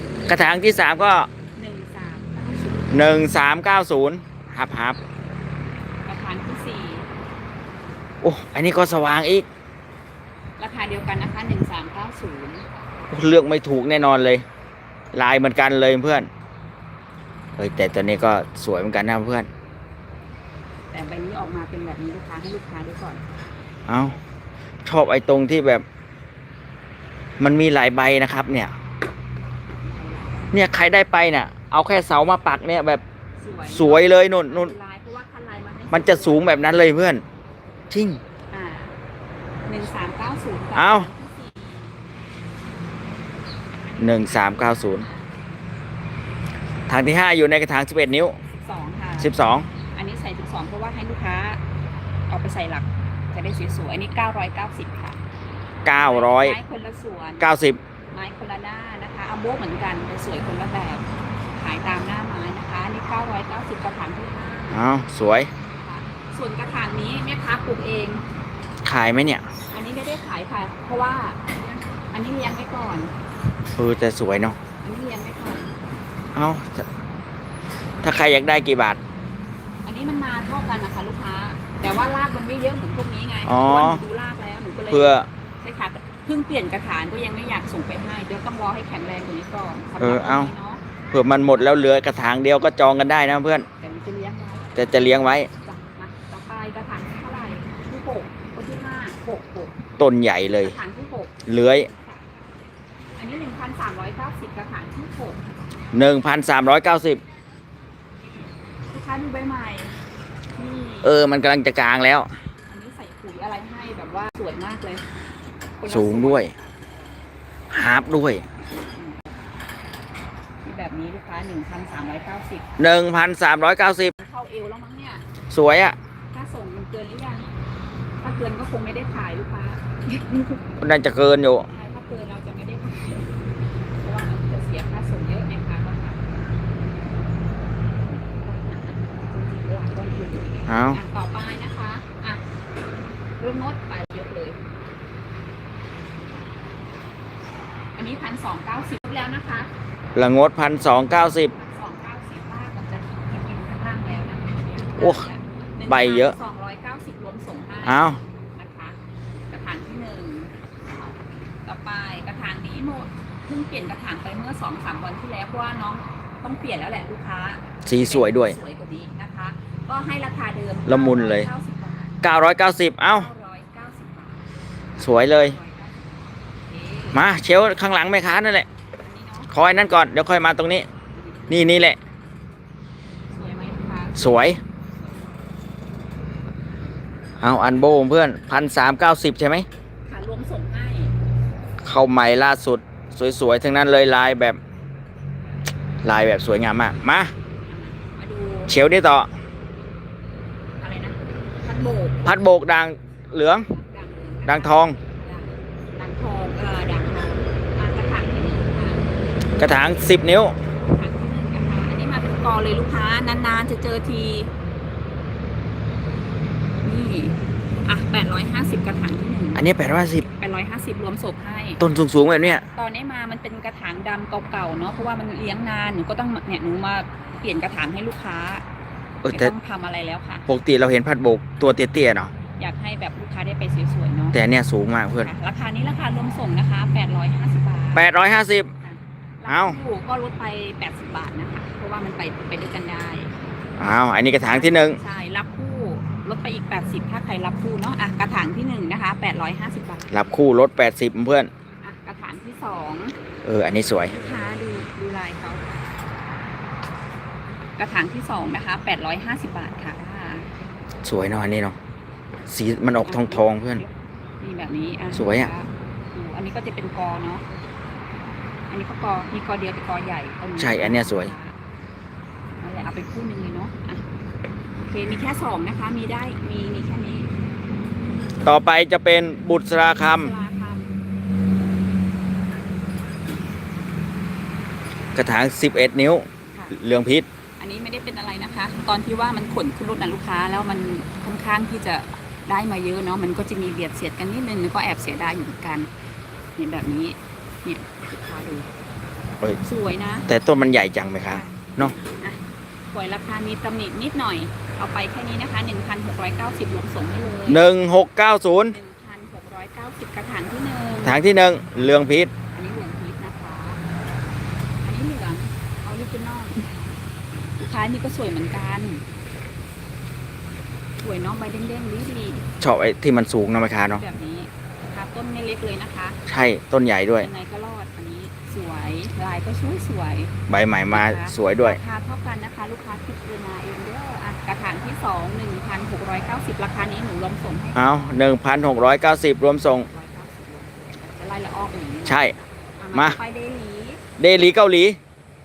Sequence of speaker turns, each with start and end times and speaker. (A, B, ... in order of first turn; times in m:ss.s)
0:00.3-0:01.3 A
0:01.6-0:03.2 B
0:02.9-0:05.0 A
0:06.0-0:07.1 B
0:08.2-0:09.4 A
0:10.6-0:12.6 B
0:13.1-0:14.4 A
0:15.1-0:16.3 A
0:17.6-0:19.5 A
0:20.9-0:23.2 B
0:23.9-0:24.2 A
0:24.8-0:25.8 A
0:27.4-0:28.7 A
0:29.8-0:30.5 B
0:30.5-0:33.0 A
0:33.4-0:36.7 B
0:33.7-0:34.7 A
0:35.9-0:37.2 A
0:37.9-0:38.2 A
0:38.5-0:39.0 B
0:39.7-0:41.9 B
0:40.7-0:41.1 A
0:43.7-0:45.2 B
0:44.0-0:45.1 A
0:46.9-0:48.4 A
0:48.5-0:49.3 B
0:49.2-0:49.7 A
0:49.9-0:51.6 B
0:52.3-0:55.2 B
0:55.8-0:56.6 A
0:55.9-0:57.5 B
0:57.4-0:57.8 A
0:58.1-1:01.0 B
1:01.6-1:04.8 B
1:04.7-1:05.5 A
1:05.7-1:08.2 B
1:08.8-1:09.4 A
1:09.7-1:13.1 B
1:13.8-1:14.6 A
1:14.8-1:15.8 B
1:16.3-1:16.9 A
1:18.0-1:19.0 A
1:19.8-1:30.8 B
1:23.4-1:24.0 A
1:24.9-1:25.3 A
1:30.0-1:30.5 A
1:31.1-1:33.7 A
1:33.8-1:34.8 B
1:34.8-1:35.5 A
1:35.5-1:39.8 B
1:40.0-1:40.8 A
1:40.6-1:42.4 B
1:41.5-1:41.9 A
1:43.2-1:45.4 B
1:45.9-1:47.2 A
1:48.9-1:50.0 B
1:50.6-1:51.2 B
1:51.0-1:52.3 A
1:52.7-1:55.0 B
1:55.8-1:56.7 B
1:55.8-1:56.5 A
1:57.7-1:58.4 A
1:58.9-1:59.2 B
2:00.6-2:02.7 B
2:02.8-2:04.1 A
2:04.1-2:05.2 B
2:05.5-2:06.0 A
2:06.3-2:07.5 B
2:08.2-2:10.6 B
2:10.8-2:11.7 A
2:11.7-2:13.3 B
2:14.0-2:16.2 B
2:18.0-2:22.4 B
2:20.7-2:21.0 A
2:23.4-2:24.6 B
2:28.0-2:29.7 B
2:30.1-2:31.5 A
2:31.3-2:39.0 B
2:35.0-2:35.2 A
2:35.9-2:36.4 A
2:37.8-2:38.2 A
2:39.5-2:41.1 B
2:41.6-2:52.1 B
2:47.8-2:48.6 A
2:50.9-2:51.5 A
2:52.2-2:53.3 A
2:53.1-2:54.4 B
2:54.9-2:56.1 B
2:55.0-2:55.6 A
2:56.7-2:57.2 B
2:57.1-2:58.7 A
2:59.0-2:59.5 B
2:59.5-3:00.9 A
3:01.2-3:01.6 B
3:01.5-3:02.0 A
3:03.3-3:05.2 B
3:04.2-3:04.6 A
3:07.4-3:09.6 A
3:10.1-3:11.1 B
3:11.8-3:14.6 A
3:16.0-3:17.3 A
3:17.6-3:18.7 B
3:18.7-3:19.3 A
3:20.8-3:22.2 B
3:22.2-3:23.7 A
3:23.7-3:29.0 B
3:24.4-3:25.0 A
3:29.6-3:30.5 A
3:30.8-3:34.5 B
3:36.8-3:39.6 B
3:39.5-3:40.3 A
3:40.3-3:41.8 B
3:41.8-3:42.6 A
3:42.4-3:48.6 B
3:49.2-3:49.5 A
3:49.3-3:50.5 B
3:50.5-3:52.3 A
3:52.6-3:54.4 B
3:54.3-3:55.3 A
3:55.2-3:58.0 B
3:57.9-3:58.7 A
3:58.8-4:03.3 B
3:59.5-3:59.8 A
4:03.8-4:05.0 A
4:04.4-4:10.1 B
4:10.1-4:11.5 A
4:11.8-4:13.1 B
4:13.4-4:14.2 A
4:14.1-4:15.7 B
4:17.8-4:20.5 B
4:21.0-4:21.8 A
4:22.5-4:23.8 A
4:23.0-4:23.9 B
4:24.4-4:27.4 B
4:25.1-4:25.5 A
4:28.7-4:31.5 B
4:30.6-4:31.3 A
4:32.6-4:34.0 B
4:34.8-4:37.3 B
4:38.4-4:40.3 A
4:40.0-4:40.9 B
4:45.1-4:47.2 A
4:47.6-4:55.9 B
4:56.6-4:58.7 B
4:59.6-5:00.3 B
5:00.3-5:01.9 A
5:01.3-5:02.4 B
5:02.9-5:07.6 B
5:07.5-5:08.8 A
5:08.7-5:11.2 B
5:11.0-5:12.3 A
5:12.5-5:13.8 B
5:14.8-5:16.9 B
5:17.6-5:19.0 B
5:21.0-5:22.5 B
5:22.6-5:24.0 A
5:23.9-5:26.2 B
5:26.3-5:27.3 A
5:27.2-5:30.3 B
5:30.5-5:31.8 A
5:30.9-5:37.8 B
5:37.7-5:39.9 A
5:39.9-5:44.0 B
5:42.0-5:42.3 A
5:42.9-5:43.2 A
5:44.2-5:45.0 A